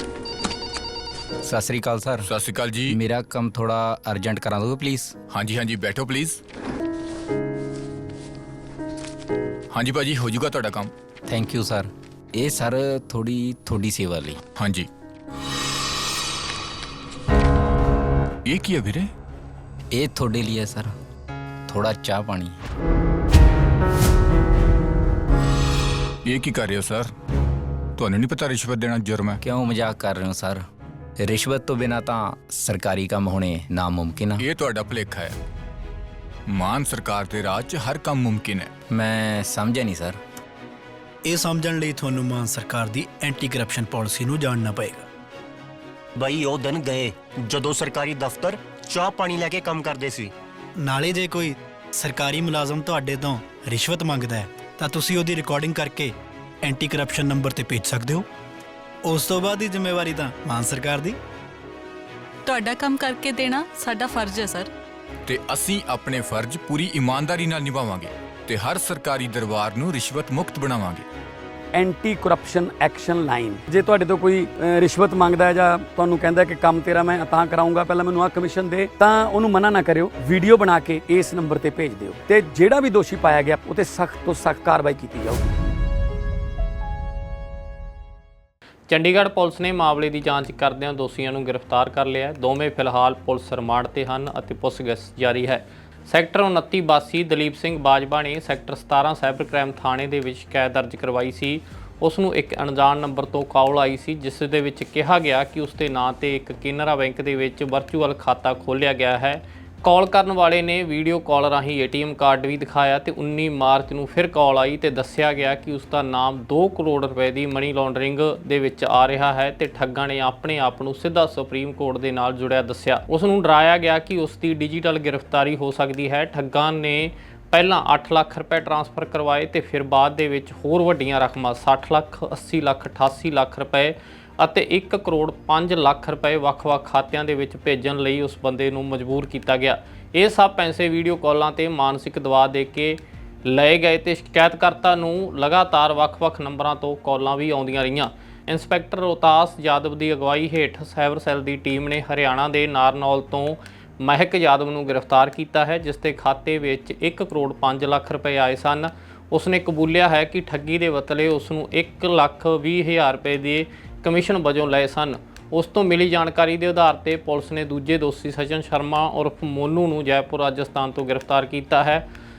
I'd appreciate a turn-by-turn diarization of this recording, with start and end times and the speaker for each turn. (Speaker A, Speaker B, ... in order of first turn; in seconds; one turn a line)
Speaker A: 1.4-2.3
Speaker B: 2.2-3.0
Speaker A: 2.9-5.1
Speaker B: 5.3-6.4
Speaker B: 9.7-10.9
Speaker A: 11.3-14.4
Speaker B: 14.6-14.9
Speaker B: 18.4-19.1
Speaker A: 19.9-20.9
Speaker A: 21.7-22.6
Speaker B: 26.2-27.1
Speaker B: 28.0-29.4
Speaker A: 29.4-30.6
Speaker A: 31.2-34.4
Speaker B: 34.4-35.4
Speaker B: 36.5-38.7
Speaker A: 38.9-40.2
Speaker C: 41.2-45.1
Speaker D: 46.2-50.3
Speaker C: 50.8-58.3
Speaker C: 59.0-61.2
Speaker E: 62.5-64.7
Speaker B: 65.2-71.0
Speaker F: 71.7-85.5
Speaker G: 88.9-172.0